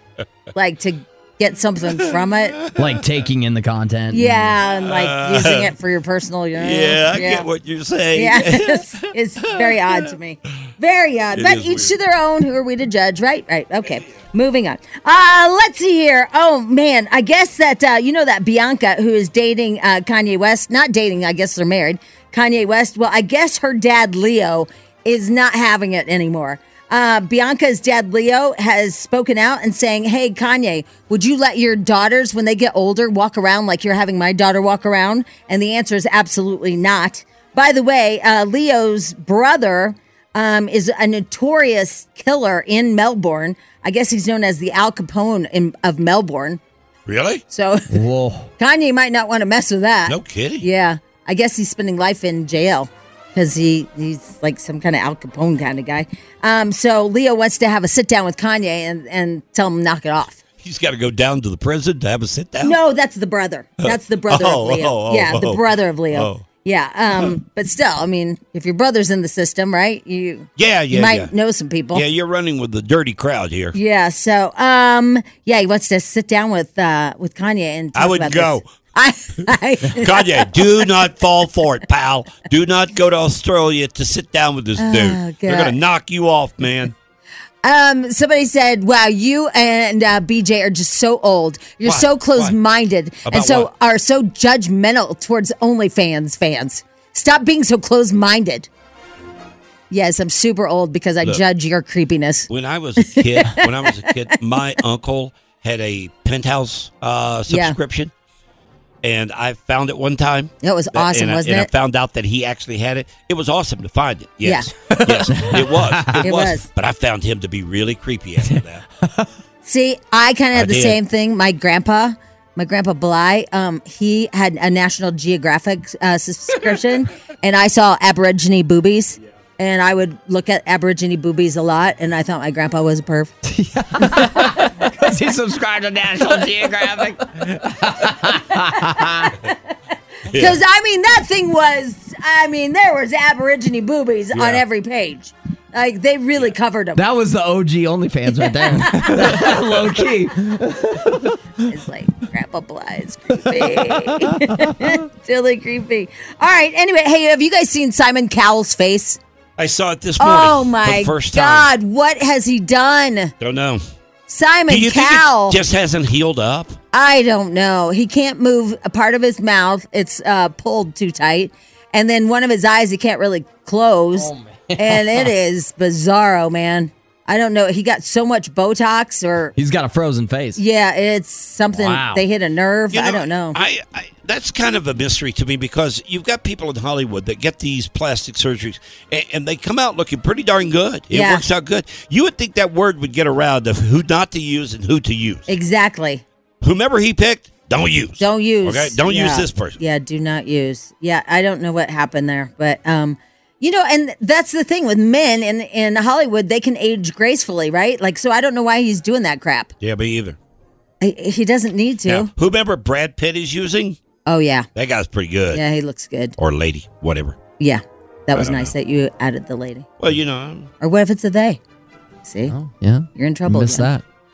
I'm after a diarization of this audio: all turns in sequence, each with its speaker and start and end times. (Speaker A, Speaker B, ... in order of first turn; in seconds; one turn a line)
Speaker A: 0.6-2.6
Speaker B: 2.8-4.5
Speaker A: 4.1-7.5
Speaker C: 4.8-5.7
Speaker C: 6.6-9.1
Speaker A: 8.2-46.6
Speaker C: 9.6-10.1
Speaker C: 11.3-11.9
Speaker C: 13.9-14.2
Speaker C: 47.1-47.4
Speaker A: 47.5-47.9
Speaker B: 47.9-48.5
Speaker A: 48.6-60.4
Speaker C: 50.1-50.6
Speaker C: 60.6-62.8
Speaker A: 62.6-72.0
Speaker C: 63.8-66.4
Speaker C: 70.6-71.3
Speaker C: 71.9-73.8
Speaker A: 73.7-80.5
Speaker C: 78.0-78.7
Speaker C: 79.9-86.9
Speaker A: 84.8-85.8
Speaker A: 87.6-98.7
Speaker C: 91.8-92.5
Speaker C: 93.3-93.7
Speaker A: 99.9-102.5
Speaker C: 102.5-108.1
Speaker A: 103.0-104.0
Speaker A: 107.5-107.8
Speaker C: 109.0-118.8
Speaker A: 110.6-111.7
Speaker A: 114.4-114.7
Speaker B: 115.3-116.2
Speaker A: 116.2-116.7
Speaker B: 118.5-119.3
Speaker A: 119.6-133.3
Speaker C: 120.5-121.0
Speaker B: 133.5-139.3
Speaker C: 140.3-140.6
Speaker A: 140.3-147.0
Speaker C: 144.3-144.6
Speaker B: 147.0-151.3
Speaker A: 148.4-149.5
Speaker A: 151.7-159.2
Speaker B: 153.6-155.0
Speaker C: 159.6-161.7
Speaker A: 160.2-163.3
Speaker C: 163.4-163.8
Speaker A: 164.3-165.6
Speaker C: 164.7-166.8
Speaker A: 166.9-179.6
Speaker B: 174.2-175.3
Speaker B: 179.6-180.6
Speaker A: 180.6-183.6
Speaker B: 181.7-182.2
Speaker C: 182.9-195.5
Speaker A: 191.1-191.4
Speaker A: 195.5-196.2
Speaker C: 196.6-199.8
Speaker A: 198.2-209.7
Speaker C: 209.8-210.4
Speaker A: 211.0-212.3
Speaker C: 212.1-214.0
Speaker A: 214.3-214.7
Speaker C: 214.8-215.6
Speaker A: 215.5-216.4
Speaker C: 216.4-217.4
Speaker A: 217.6-219.9
Speaker C: 218.3-218.7
Speaker C: 220.0-220.7
Speaker A: 220.8-221.6
Speaker A: 222.2-222.6
Speaker B: 222.5-224.0
Speaker A: 223.2-223.9